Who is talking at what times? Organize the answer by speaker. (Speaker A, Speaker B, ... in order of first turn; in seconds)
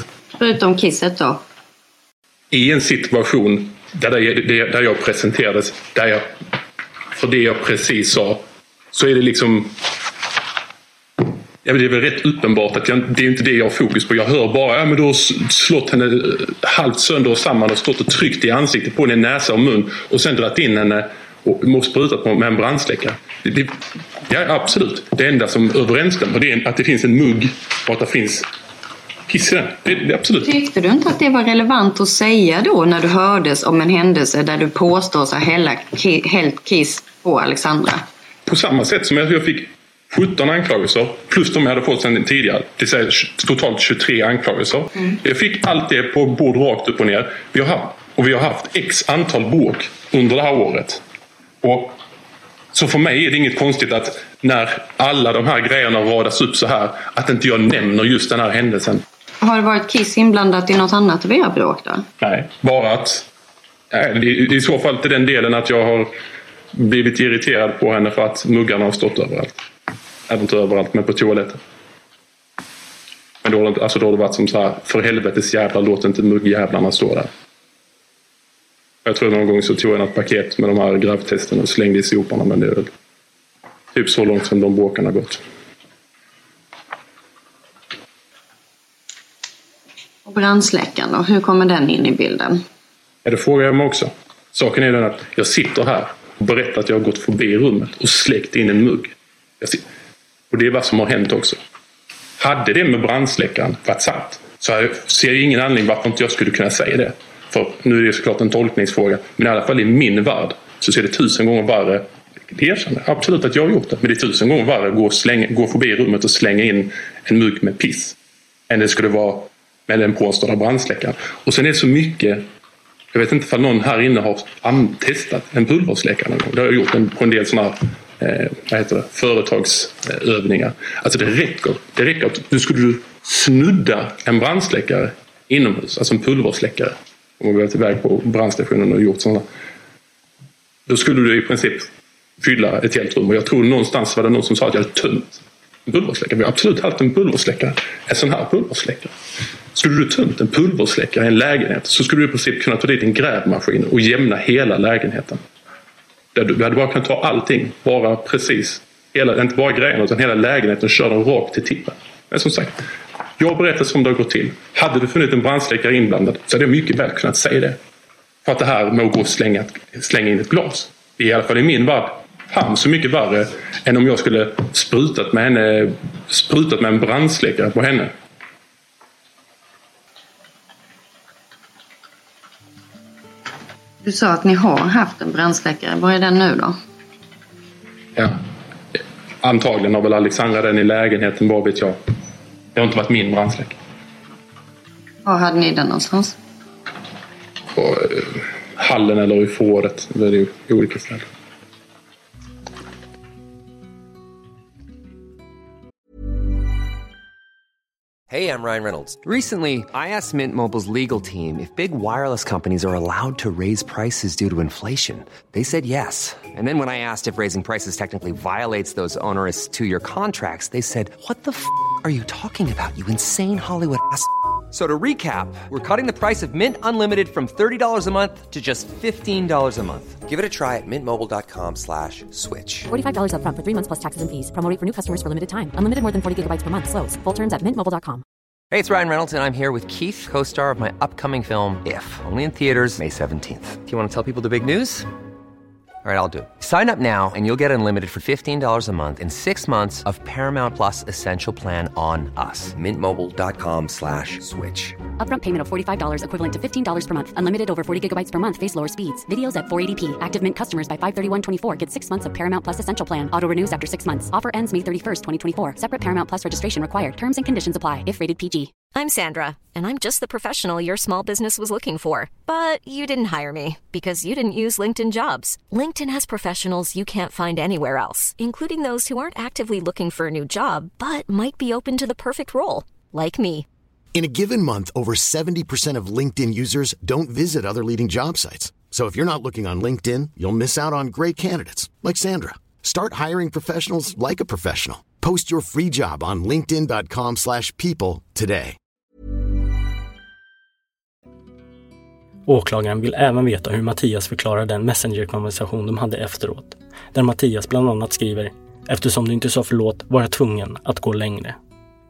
Speaker A: 0.4-1.4, 30.4-38.0, 59.4-62.0, 90.2-92.6, 184.0-186.8, 195.2-196.4
Speaker B: 2.5-6.3, 7.2-8.4, 8.9-9.8, 11.6-28.5, 29.3-30.5, 38.5-51.0, 51.6-52.0, 52.7-59.0, 62.2-63.3, 63.9-66.1, 66.7-69.6, 70.3-71.6, 73.4-77.3, 79.0-82.9, 83.9-85.4, 93.2-99.8, 100.5-101.6, 102.4-118.2, 118.7-122.5, 123.1-139.5, 140.9-149.1, 149.7-155.4, 156.3-167.8, 168.4-178.1, 188.2-188.4, 189.4-192.0, 192.7-193.8, 197.8-201.3
Speaker C: 208.3-232.9, 238.7-245.1, 246.0-255.0
Speaker D: 232.9-238.2, 255.2-268.7
Speaker E: 268.9-283.7
Speaker F: 284.1-298.8
Speaker G: 302.5-311.6